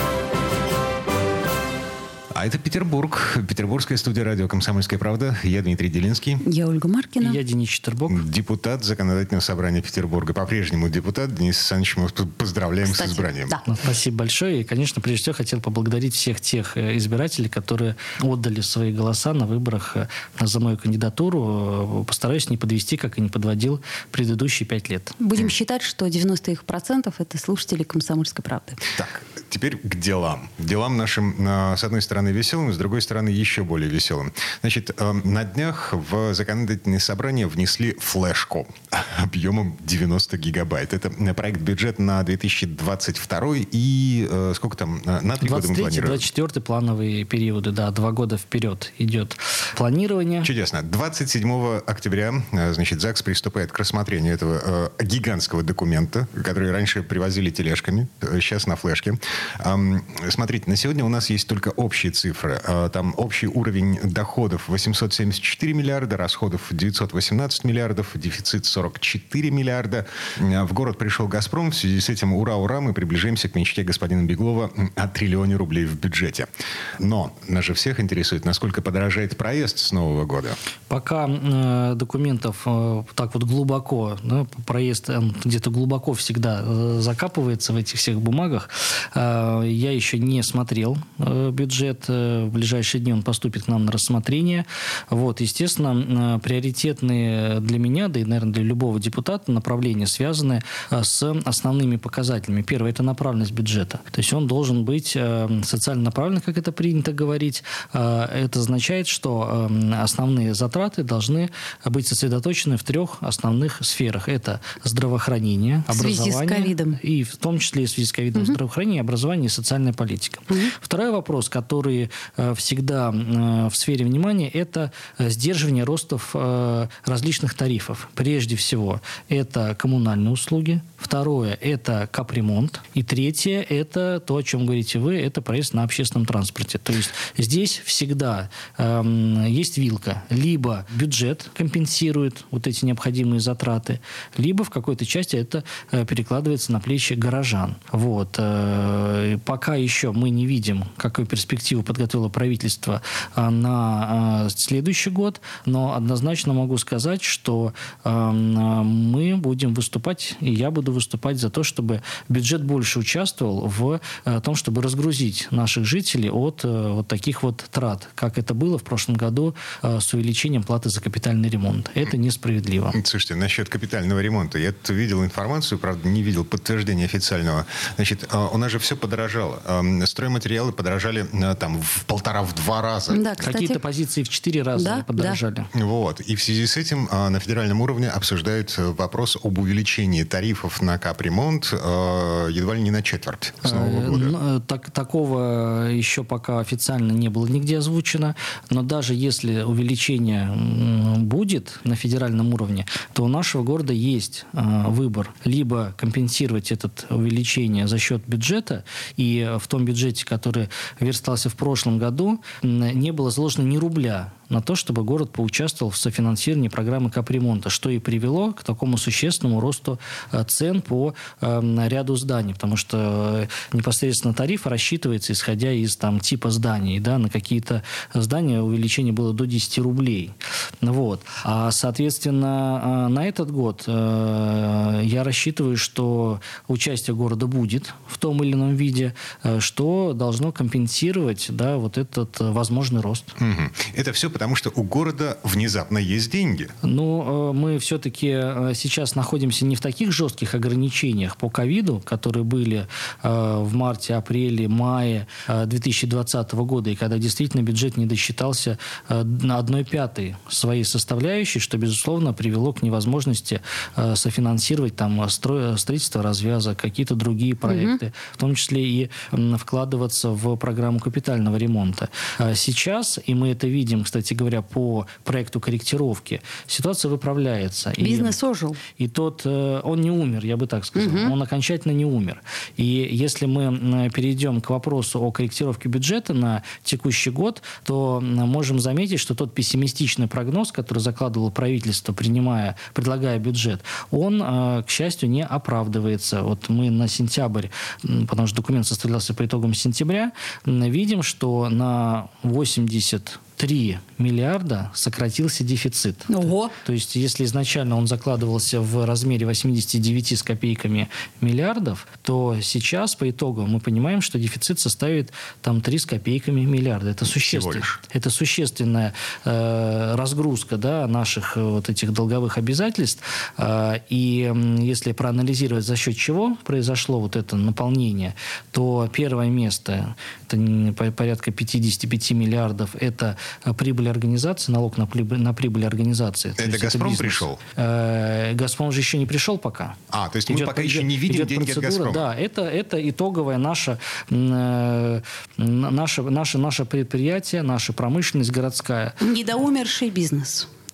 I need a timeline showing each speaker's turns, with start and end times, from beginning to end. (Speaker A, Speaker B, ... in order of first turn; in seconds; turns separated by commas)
Speaker A: 2.3-6.4, Speaker B: 6.5-7.4, Speaker C: 7.2-8.2, Speaker A: 8.1-13.6, Speaker B: 12.8-13.6, Speaker C: 13.6-25.1, Speaker B: 25.2-28.8, Speaker A: 28.9-46.2, Speaker C: 45.4-50.5, Speaker A: 50.4-80.6, Speaker C: 80.9-173.0, Speaker B: 115.9-117.0, Speaker A: 172.9-183.2, Speaker B: 183.1-183.8, Speaker C: 183.4-185.7, Speaker B: 184.8-185.4, Speaker A: 185.7-194.3, Speaker C: 193.6-243.3, Speaker A: 243.4-246.7, Speaker C: 246.8-278.4, Speaker B: 267.7-268.0, Speaker B: 278.0-278.8, Speaker C: 279.0-349.2, Speaker B: 281.0-281.3, Speaker B: 306.3-306.7, Speaker A: 317.2-318.0, Speaker A: 336.6-337.6, Speaker A: 340.1-342.3, Speaker B: 349.2-350.7